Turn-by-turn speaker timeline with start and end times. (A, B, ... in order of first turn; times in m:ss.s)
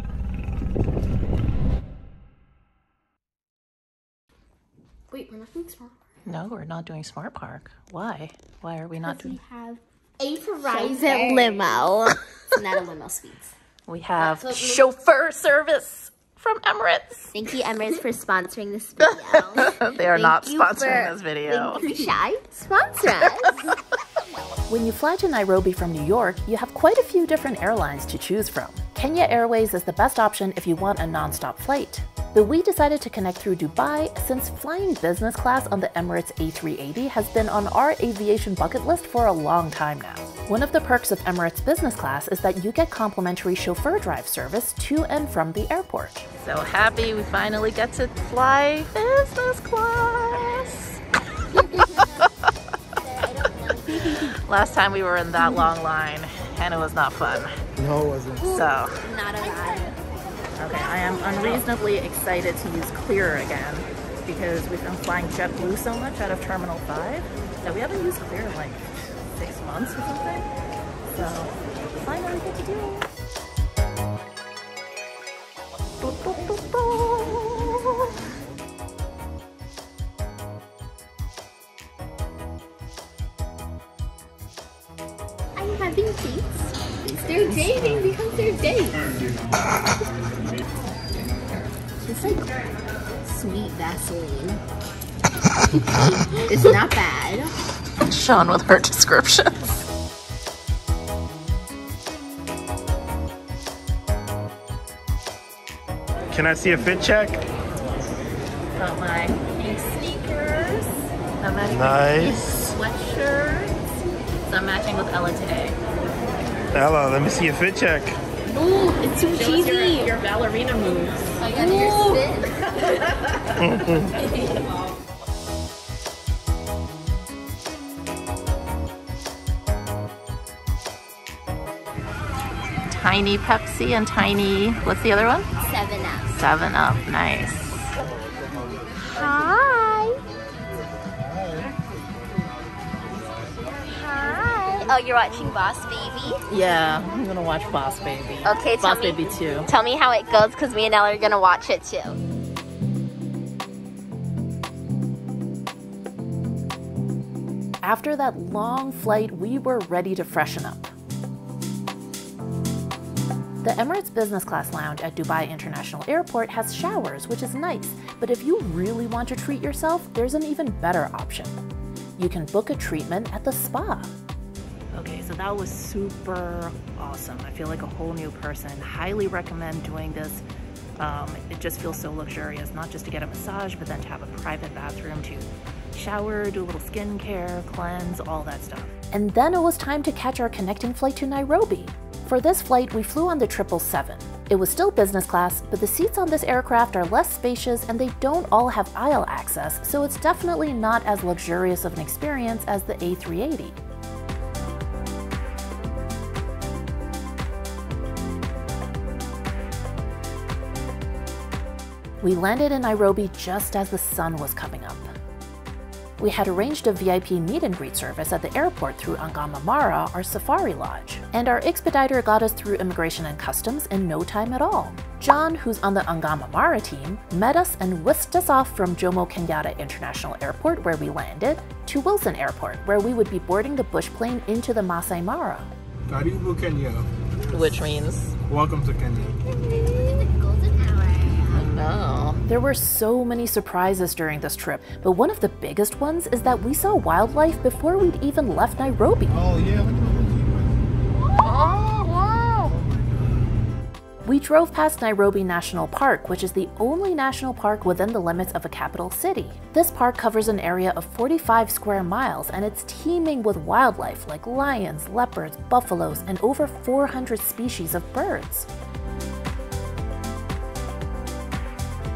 0:05.1-0:05.9 A
0:06.3-0:09.4 B
0:09.1-0:13.5 A
0:13.9-0:17.4 B
0:17.3-0:23.8 A
0:19.0-0:21.8 B
0:24.7-0:51.0 B
0:53.1-0:54.4 A
0:54.2-0:57.5 B
0:57.8-0:58.5 C
0:58.4-1:00.0 A
0:58.5-0:59.0 B
1:00.6-1:10.5 B
1:01.0-1:01.6 A
1:11.1-1:13.1 B
1:16.0-1:17.9 B
1:25.6-1:29.0 A
1:27.6-1:28.0 B
1:32.0-1:32.5 A
1:33.2-1:34.6 A
1:36.4-1:37.5 A
1:38.0-1:39.8 B
1:46.3-1:47.4 C
1:48.8-1:53.8 B
1:51.7-1:52.6 C
1:54.5-1:55.8 B
1:56.7-1:58.2 C
1:58.5-2:03.5 B
2:01.4-2:02.5 A
2:03.6-2:04.2 C
2:12.9-2:15.5 B
2:15.6-2:16.4 A
2:16.3-2:17.9 B
2:19.1-2:20.2 A
2:21.2-2:21.7 C
2:23.9-2:26.4 A
2:26.5-2:29.7 B
2:28.4-2:32.2 A
2:37.8-2:40.9 B
2:43.6-2:51.6 B
2:52.2-2:54.1 B
2:54.9-3:00.4 B
3:01.0-3:23.8 B
3:32.2-3:35.1 B
3:36.2-3:55.7 B
3:56.1-3:57.8 C
3:57.5-3:58.4 B
3:58.5-3:59.4 C
3:59.6-4:01.7 A
4:01.5-4:09.4 B
4:09.3-4:11.0 C
4:11.7-4:12.1 A
4:12.7-4:13.6 C
4:14.2-4:28.7 B